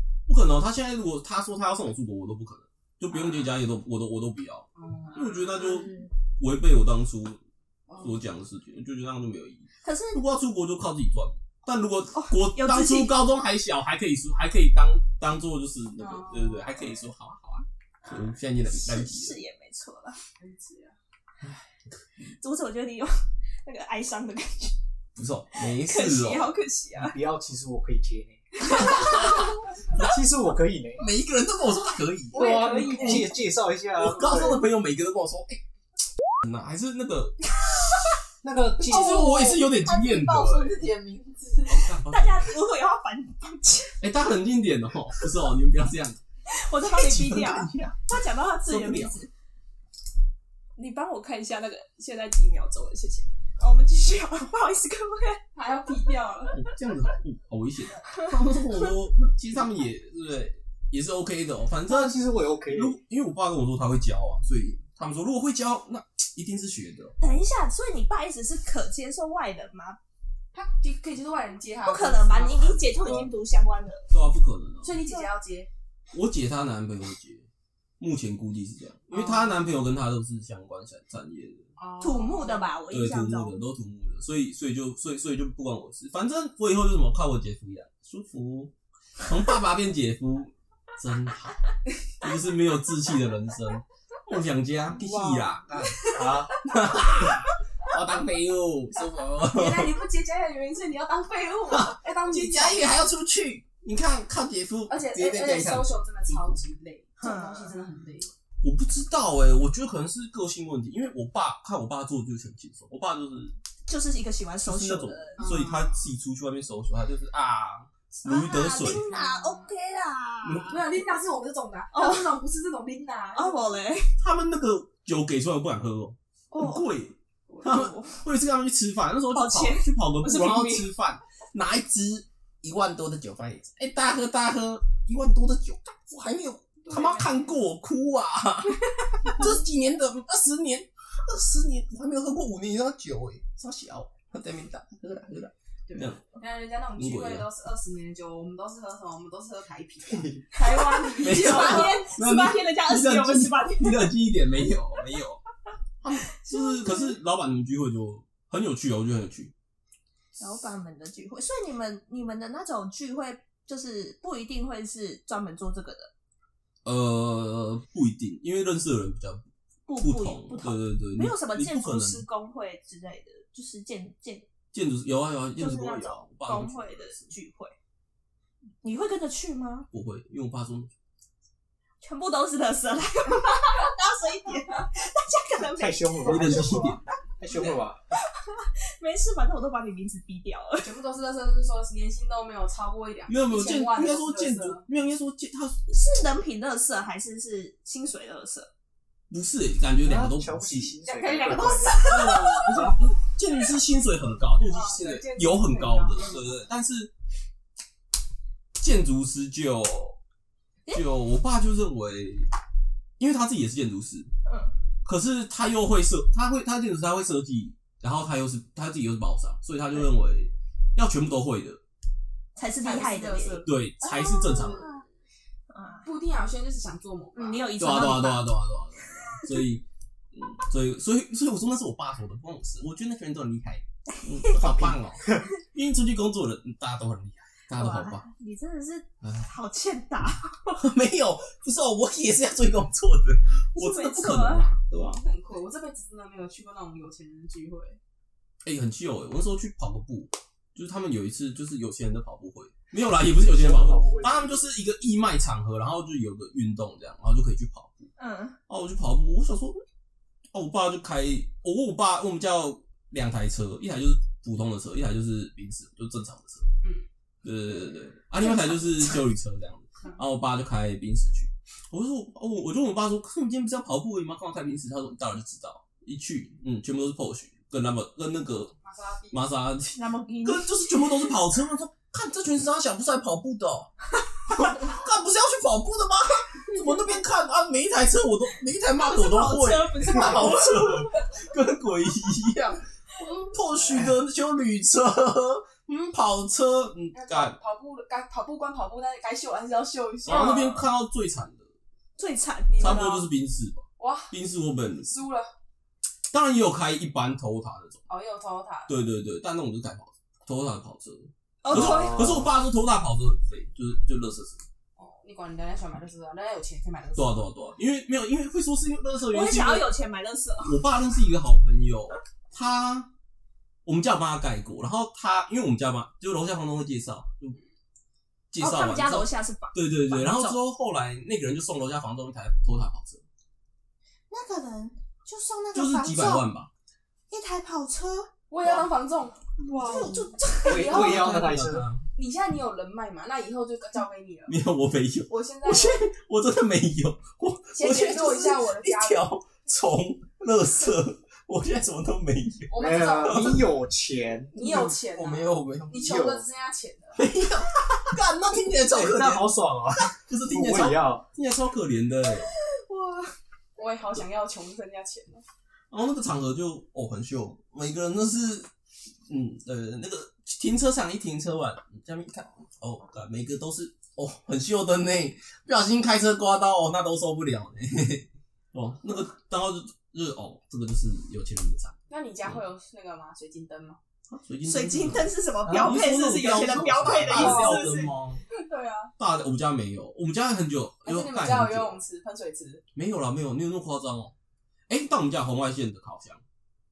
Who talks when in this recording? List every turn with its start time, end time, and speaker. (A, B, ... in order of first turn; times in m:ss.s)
0:00.3-0:07.4 A
0:04.8-0:05.9 B
0:07.9-0:08.2 B
0:08.0-0:19.4 A
0:09.8-0:10.2 C
0:12.1-0:13.2 C
0:16.0-0:16.8 B
0:18.0-0:20.2 C
0:20.4-0:21.0 B
0:21.4-0:22.3 A
0:22.4-0:23.1 C
0:23.6-0:24.8 C
0:25.1-0:26.5 A
0:25.6-0:27.2 C
0:27.0-0:29.2 D
0:28.6-0:30.1 A
0:28.7-0:29.4 C
0:29.9-0:31.1 D
0:31.0-0:32.4 A
0:32.3-0:33.3 B
0:32.3-0:34.6 D
0:32.4-0:33.2 C
0:34.0-0:35.6 A
0:36.4-0:37.5 A
0:38.4-0:39.4 D
0:38.8-0:40.8 A
0:38.9-0:41.7 E
0:41.6-0:42.5 A
0:42.1-0:44.0 C
0:44.0-0:46.2 A
0:46.5-0:49.3 C
0:46.8-0:48.0 A
0:48.7-0:49.2 A
0:50.8-0:55.4 C
0:55.5-0:56.6 B
0:56.5-1:02.2 A
0:58.2-0:58.6 C
1:01.9-1:02.9 D
1:02.7-1:07.2 A
1:07.2-1:10.0 C
1:10.5-1:13.0 B
1:11.8-1:14.1 C
1:14.1-1:15.0 A
1:14.8-1:15.7 B
1:16.1-1:17.5 A
1:18.0-1:21.7 A
1:19.1-1:19.6 B
1:21.8-1:22.7 B
1:22.0-1:23.6 C
1:22.9-1:31.6 A
1:32.2-1:40.0 A
1:35.0-1:36.2 B
1:36.1-1:36.6 D
1:39.5-1:43.0 B
1:41.7-1:46.6 A
1:44.9-1:48.3 B
1:47.2-1:47.8 C
1:48.6-1:53.5 A
1:53.9-1:55.4 C
1:54.6-1:59.0 A
1:55.4-1:56.0 B
1:58.2-2:00.8 C
1:59.1-1:59.7 B
2:00.4-2:00.7 A
2:00.7-2:03.8 B
2:01.9-2:02.3 C
2:03.3-2:04.1 C
2:04.2-2:26.3 A
2:06.5-2:06.9 C
2:07.5-2:07.8 B
2:07.6-2:08.2 C
2:09.3-2:10.8 C
2:16.8-2:17.5 B
2:25.9-2:32.0 B
2:27.0-2:27.5 A
2:30.1-2:30.4 D
2:30.6-2:34.1 C
2:31.2-2:35.4 A
2:36.0-2:39.5 A
2:36.3-2:37.2 C
2:40.4-2:46.1 C
2:46.8-2:49.5 A
2:49.9-2:54.4 C
2:50.0-2:52.2 A
2:54.7-2:57.3 A
2:55.6-2:57.7 C
2:58.8-2:59.9 C
2:59.9-3:00.9 A
3:02.0-3:06.8 C
3:05.6-3:08.0 D
3:06.2-3:07.0 A
3:08.3-3:10.9 C
3:10.8-3:14.9 B
3:13.3-3:15.8 A
3:15.9-3:18.7 C
3:19.3-3:21.0 A
3:20.0-3:22.1 D
3:21.0-3:22.8 B
3:21.5-3:22.6 C
3:22.0-3:27.1 A
3:24.7-3:26.6 B
3:28.8-3:30.2 A
3:30.9-3:32.5 A
3:33.2-3:34.3 A
3:34.4-3:34.7 C
3:35.0-3:41.8 A
3:42.6-3:45.0 C
3:42.8-3:43.7 B
3:43.6-3:44.8 A
3:44.4-3:44.8 B
3:45.7-3:46.1 C
3:46.0-3:47.7 B
3:47.3-3:48.5 C
3:47.8-3:58.2 A
3:54.1-3:54.5 C
3:54.5-3:55.5 D
3:57.7-4:00.7 C
3:59.2-3:59.5 A
4:00.7-4:05.2 A
4:03.8-4:04.7 C
4:05.2-4:08.0 B
4:08.6-4:18.1 A
4:13.4-4:14.6 D
4:18.2-4:18.6 C
4:18.7-4:19.8 A
4:20.5-4:26.7 A
4:27.4-4:38.7 A
4:38.8-4:39.4 B
4:39.3-4:43.9 A
4:39.9-4:41.3 C
4:44.4-4:52.8 A
4:49.0-4:51.0 C
4:53.5-4:57.6 A
4:57.1-5:00.7 B
5:00.2-5:01.7 A
5:00.3-5:00.8 C
5:02.2-5:03.2 C
5:02.7-5:03.2 B
5:02.8-5:05.1 A
5:04.0-5:04.3 B
5:05.0-5:05.5 B
5:06.3-5:08.0 A
5:08.1-5:08.9 B
5:08.9-5:14.6 A
5:11.6-5:12.3 C
5:11.7-5:12.5 D
5:15.0-5:17.5 B
5:17.2-5:19.9 A
5:19.3-5:20.8 C
5:20.6-5:23.1 A
5:23.8-5:27.6 A
5:28.5-5:33.2 A
5:28.6-5:30.6 C
5:34.3-5:36.4 C
5:35.7-5:36.7 A
5:37.3-5:38.3 C
5:38.5-5:41.6 B
5:39.7-5:40.8 C
5:40.6-5:41.9 D
5:40.7-5:42.0 A
5:42.1-5:44.6 B
5:44.5-5:53.6 A
5:45.3-5:46.1 B
5:47.7-5:49.3 B
5:52.7-5:53.6 B
5:52.8-5:54.9 D
5:54.5-5:57.3 B
5:54.6-5:56.1 A
5:55.9-5:56.4 D
5:57.2-5:59.5 A
5:58.8-6:01.2 D
6:00.1-6:02.5 A
6:02.6-6:03.3 C
6:03.8-6:05.4 B
6:05.9-6:08.7 A
6:09.3-6:22.6 A
6:22.1-6:24.0 B
6:24.3-6:28.4 A
6:24.6-6:28.1 C
6:25.7-6:26.0 D
6:27.3-6:27.9 B
6:28.5-6:29.1 B
6:29.2-6:32.0 A
6:31.0-6:32.8 B
6:32.9-6:34.3 A
6:34.9-6:36.4 A